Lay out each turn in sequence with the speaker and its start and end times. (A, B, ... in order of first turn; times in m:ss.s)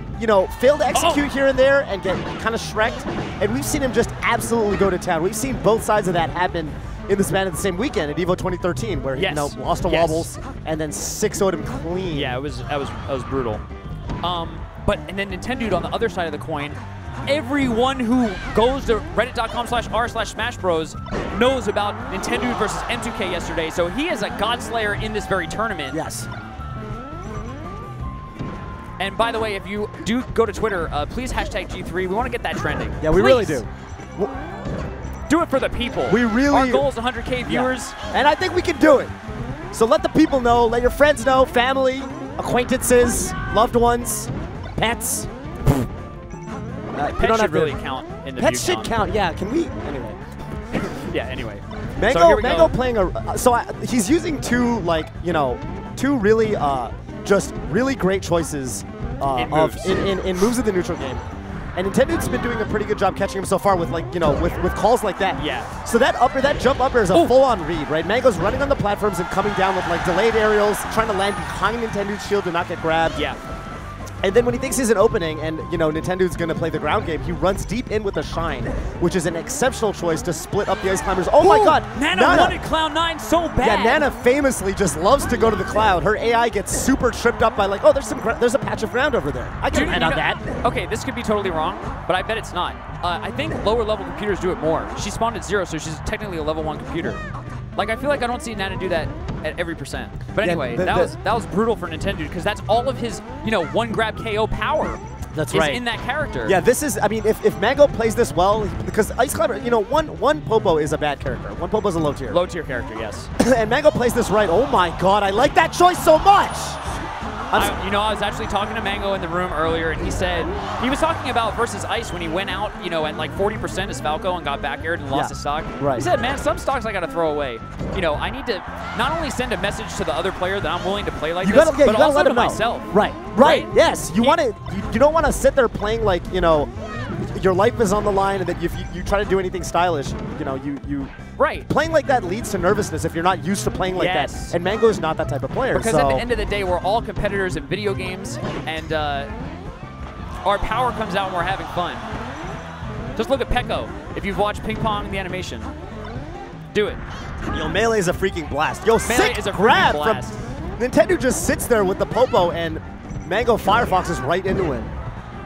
0:00.2-0:12.4 A
0:00.9-0:01.2 B
0:09.2-0:10.3 B
0:12.1-0:13.6 B
0:14.2-0:26.0 B
0:25.9-0:26.3 A
0:29.0-0:33.6 B
0:33.0-0:34.3 A
0:35.3-0:38.0 B
0:36.1-0:36.9 A
0:37.4-0:39.1 A
0:39.7-0:45.3 A
0:46.9-0:47.8 A
0:47.0-0:49.0 B
0:48.4-0:50.2 A
0:50.7-0:52.7 B
0:52.0-1:01.2 A
0:59.3-1:00.5 B
1:01.7-1:13.2 A
1:05.3-1:05.7 B
1:13.1-1:13.4 B
1:14.2-1:22.6 A
1:21.4-1:24.0 B
1:23.6-1:30.4 A
1:29.7-1:37.2 B
1:37.7-1:46.6 B
1:40.4-1:41.1 A
1:45.3-1:45.8 A
1:46.4-1:52.4 A
1:52.3-1:53.3 B
1:53.4-1:56.8 A
1:57.5-1:57.8 A
1:57.5-2:14.4 B
2:05.1-2:06.1 A
2:11.4-2:16.7 A
2:17.2-2:21.1 A
2:21.4-2:21.7 B
2:21.7-2:26.2 A
2:23.9-2:24.6 B
2:25.7-2:29.3 B
2:30.4-2:32.0 B
2:33.2-2:35.7 B
2:36.7-2:37.0 B
2:37.5-2:44.9 A
2:39.0-2:40.4 B